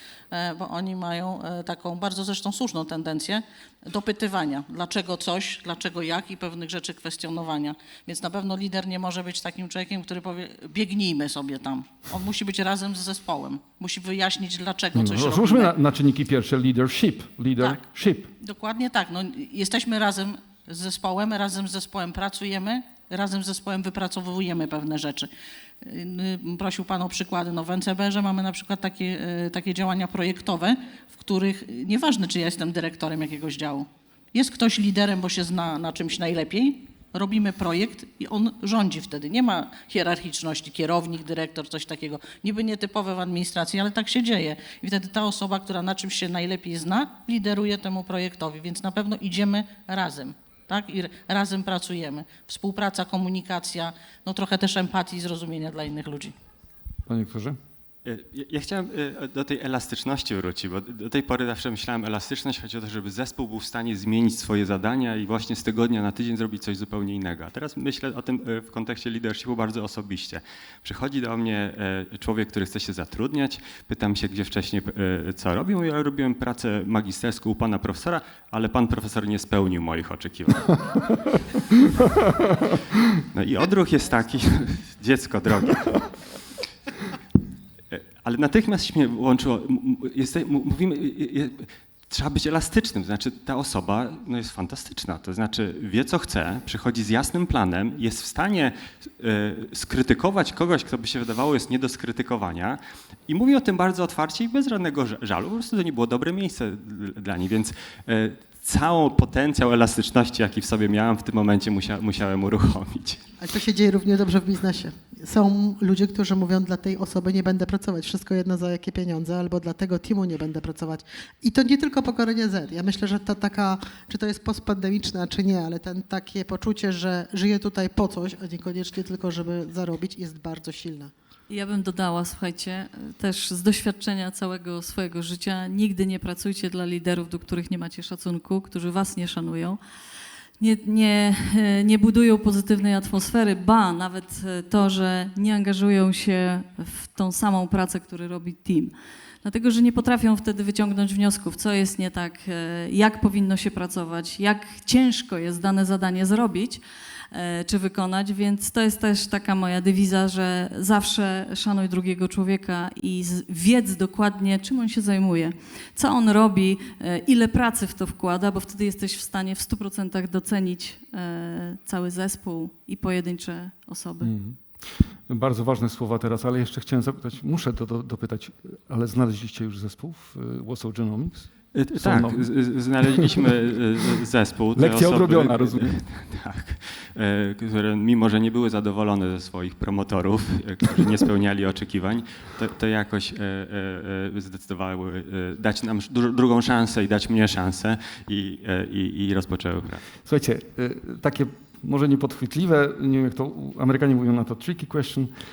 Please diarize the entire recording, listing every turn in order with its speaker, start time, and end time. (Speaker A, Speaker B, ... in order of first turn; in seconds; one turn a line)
Speaker A: 0.3-15.7
Speaker B: 14.9-18.3
Speaker A: 18.4-25.3
Speaker A: 25.8-56.4
Speaker B: 57.1-57.6
Speaker C: 58.0-81.1
Speaker C: 83.3-86.0
Speaker C: 87.9-113.2
Speaker D: 113.4-131.1
Speaker E: 131.5-139.8
Speaker E: 140.6-174.3
Speaker B: 174.2-182.5
Speaker C: 181.8-200.1
Speaker B: 183.0-183.5
Speaker B: 184.8-186.0
Speaker B: 200.2-205.3